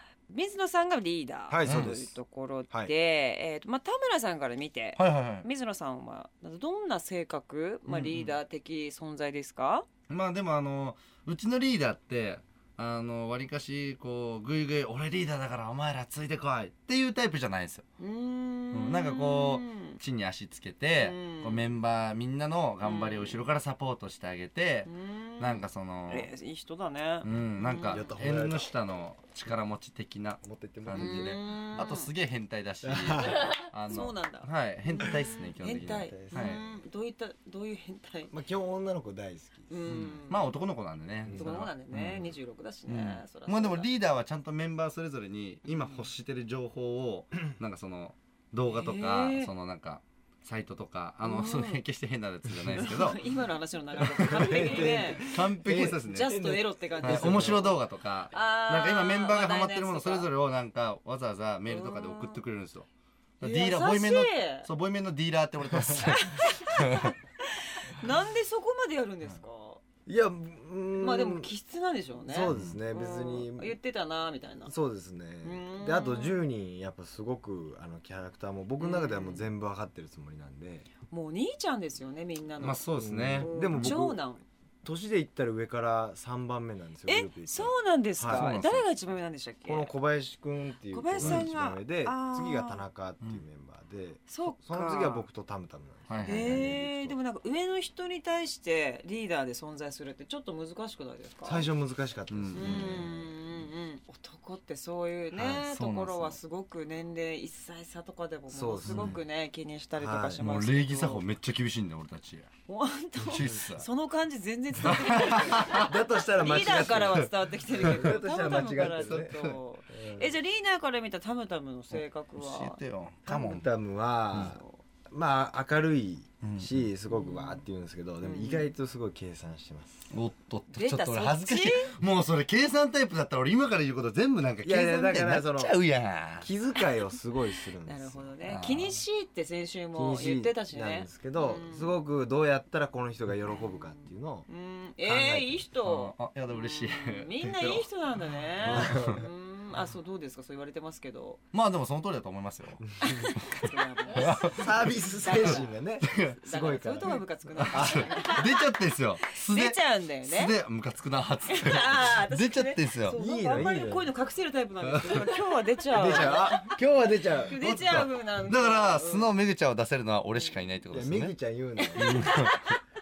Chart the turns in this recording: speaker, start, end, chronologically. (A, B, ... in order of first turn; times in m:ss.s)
0:00.3-0:09.9 A
0:01.5-0:02.1 B
0:01.6-0:01.9 C
0:05.0-0:05.5 C
0:07.9-0:08.3 C
0:10.1-0:17.8 C
0:18.0-0:20.0 A
0:18.7-0:26.3 C
0:21.0-0:21.7 A
0:22.8-0:23.4 A
0:24.8-0:28.1 A
0:27.2-0:36.6 C
0:27.8-0:28.7 B
0:30.4-0:31.4 B
0:30.9-0:32.1 A
0:32.8-0:33.6 B
0:33.9-0:38.3 A
0:35.6-0:36.6 B
0:38.3-0:40.1 B
0:39.7-0:40.5 A
0:39.8-0:42.3 C
0:41.2-0:41.5 B
0:41.3-0:43.9 A
0:42.9-0:53.2 C
0:48.7-0:49.5 A
0:51.2-0:51.8 A
0:52.7-0:55.3 A
0:54.0-0:56.3 C
0:54.1-0:57.8 B
0:56.1-0:57.8 A
0:57.0-1:02.9 C
0:58.3-1:00.3 A
1:01.7-1:02.4 A
1:03.4-1:07.1 C
1:03.4-1:04.7 A
1:06.0-1:09.8 A
1:10.0-1:11.5 B
1:11.0-1:14.7 A
1:12.3-1:13.8 B
1:12.5-1:12.8 C
1:14.6-1:20.9 B
1:15.4-1:16.4 A
1:18.8-1:19.4 A
1:21.1-1:22.8 A
1:22.6-1:23.9 C
1:23.0-1:24.2 B
1:23.4-1:24.4 A
1:24.8-1:28.6 B
1:27.1-1:29.9 A
1:28.3-1:28.8 C
1:29.7-1:37.1 B
1:30.9-1:32.8 A
1:31.2-1:31.4 C
1:34.3-1:35.3 A
1:36.1-1:36.7 C
1:36.2-1:41.6 A
1:41.4-1:43.4 B
1:42.3-1:43.1 C
1:42.5-1:51.2 A
1:45.3-1:46.4 C
1:48.5-1:49.2 B
1:48.8-1:49.2 C
1:50.0-1:50.4 B
1:50.4-1:52.5 C
1:52.7-2:02.8 A
1:53.2-1:53.8 C
1:54.8-2:00.3 B
1:54.8-1:55.9 C
1:57.8-1:58.2 C
2:01.9-2:03.6 C
2:03.3-2:10.1 B
2:04.4-2:04.8 A
2:06.4-2:06.9 C
2:07.1-2:07.6 A
2:08.2-2:08.7 A
2:10.1-2:16.5 C
2:10.7-2:11.9 A
2:14.6-2:15.7 B
2:16.4-2:18.3 B
2:17.8-2:22.0 A
2:18.4-2:19.0 C
2:19.9-2:24.5 B
2:23.5-2:31.4 A
2:25.1-2:25.6 B
2:25.8-2:27.8 C
2:28.6-2:29.3 B
2:28.6-2:29.2 C
2:31.5-2:36.4 C
2:33.0-2:33.3 B
2:33.0-2:35.8 A
2:34.4-2:38.3 B
2:36.4-2:38.7 A
2:37.6-2:43.6 C
2:39.4-2:40.5 A
2:41.5-2:46.8 A
2:43.1-2:44.1 B
2:44.9-2:45.3 C
2:45.9-2:47.6 B
2:47.4-2:49.3 A
2:47.5-2:51.4 C
2:50.9-2:52.4 B
2:51.8-2:52.8 A
2:52.0-2:52.7 C